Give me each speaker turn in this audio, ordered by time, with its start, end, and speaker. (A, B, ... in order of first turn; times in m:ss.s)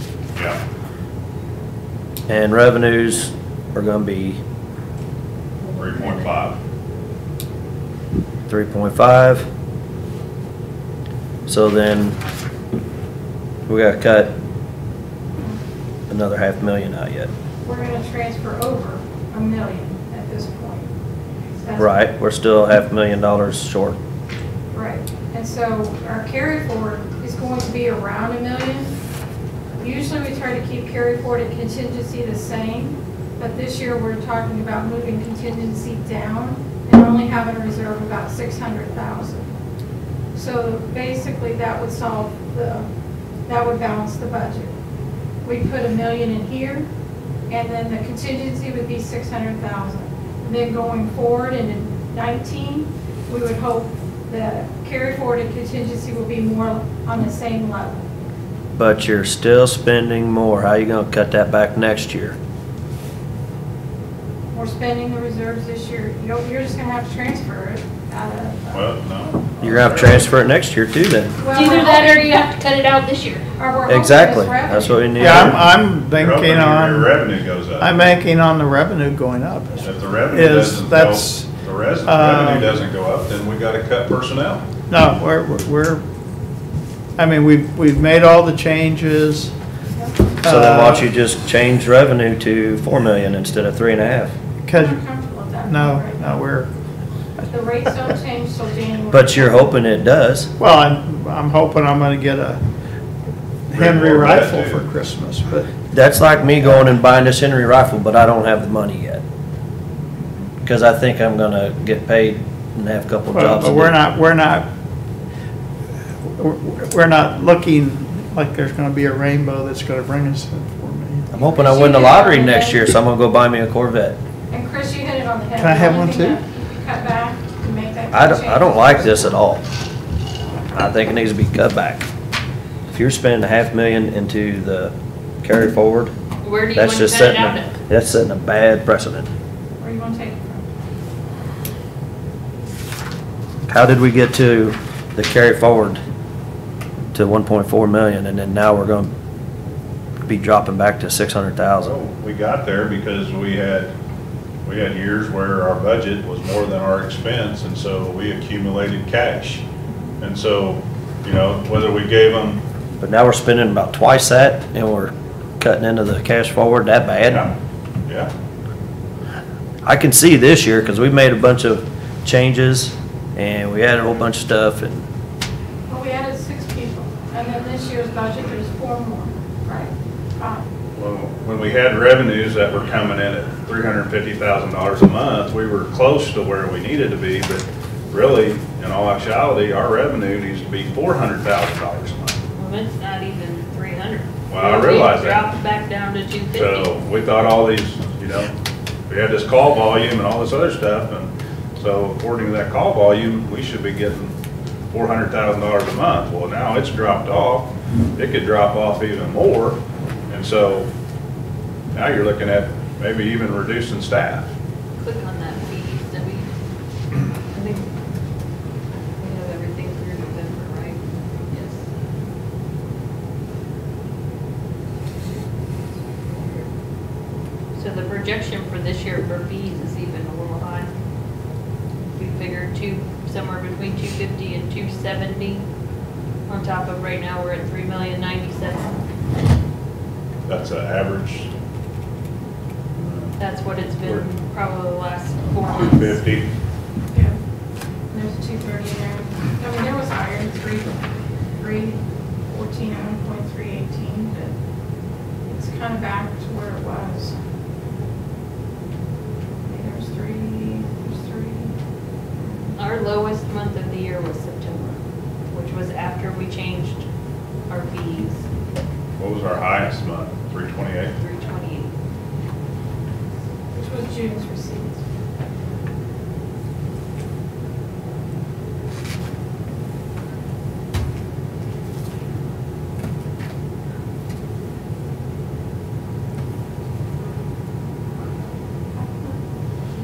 0:02.3-0:04.4 A
0:05.7-0:06.6 B
0:08.5-0:09.5 A
0:11.5-0:12.2 A
0:13.7-0:14.3 A
0:16.1-0:17.3 A
0:17.6-0:20.9 C
0:21.6-0:22.0 C
0:21.8-0:24.0 A
0:24.7-0:28.9 C
0:29.8-0:39.5 C
0:40.3-0:42.9 C
0:43.5-0:44.7 C
0:45.4-0:46.9 C
0:47.5-0:58.0 C
0:58.8-1:02.4 A
1:04.5-1:08.8 C
1:08.7-1:10.2 B
1:09.6-1:11.4 A
1:11.4-1:12.4 C
1:11.5-1:13.4 D
1:13.6-1:15.3 C
1:13.9-1:15.6 A
1:15.2-1:17.1 E
1:16.2-1:18.0 B
1:17.8-1:21.5 E
1:19.8-1:24.6 B
1:22.0-1:22.7 E
1:24.9-1:26.0 E
1:27.2-1:29.5 E
1:30.4-1:31.1 E
1:30.4-1:34.3 A
1:34.6-1:35.0 E
1:34.7-1:36.4 C
1:35.6-1:36.7 E
1:37.5-1:39.7 C
1:39.1-1:40.5 A
1:40.6-1:42.6 E
1:43.7-1:45.7 E
1:43.7-1:44.8 B
1:45.9-1:49.2 A
1:50.6-1:54.0 A
1:53.3-1:54.7 E
1:56.2-2:01.3 E
2:01.3-2:04.2 A
2:01.6-2:02.9 C
2:04.5-2:09.1 C
2:05.6-2:06.4 E
2:08.1-2:09.6 A
2:10.7-2:12.0 A
2:12.9-2:16.1 A
2:16.4-2:17.7 D
2:16.7-2:19.3 A
2:19.8-2:20.6 C
2:23.7-2:26.0 A
2:27.1-2:29.1 A
2:30.3-2:31.9 A
2:31.8-2:33.9 B
2:34.6-2:39.6 B
2:40.2-2:42.6 B
2:43.0-2:47.5 A
2:47.3-2:47.5 B
2:48.0-2:48.3 B
2:49.8-2:55.0 A
2:55.9-3:00.6 C
3:00.9-3:12.4 B
3:12.6-3:16.9 D
3:14.5-3:15.5 B
3:16.5-3:18.5 B
3:19.1-3:24.4 B
3:24.9-3:30.9 B
3:31.9-3:34.5 B
3:35.0-3:36.5 D
3:37.5-3:37.9 D
3:39.2-3:41.8 D
3:46.0-3:46.7 D
3:47.8-3:50.9 D
3:52.2-3:55.6 D
3:56.5-3:59.0 D
4:00.5-4:01.5 B
4:03.0-4:03.4 B
4:03.4-4:06.2 D
4:04.0-4:04.3 B
4:05.8-4:06.5 B
4:07.1-4:07.4 C
4:08.1-4:11.0 C
4:11.6-4:14.6 C
4:15.4-4:17.4 C
4:19.7-4:21.7 C
4:22.8-4:25.0 D
4:25.5-4:27.0 D
4:27.7-4:28.4 D
4:29.2-4:31.2 B
4:31.2-4:31.9 D
4:33.7-4:35.0 C
4:49.0-4:49.4 C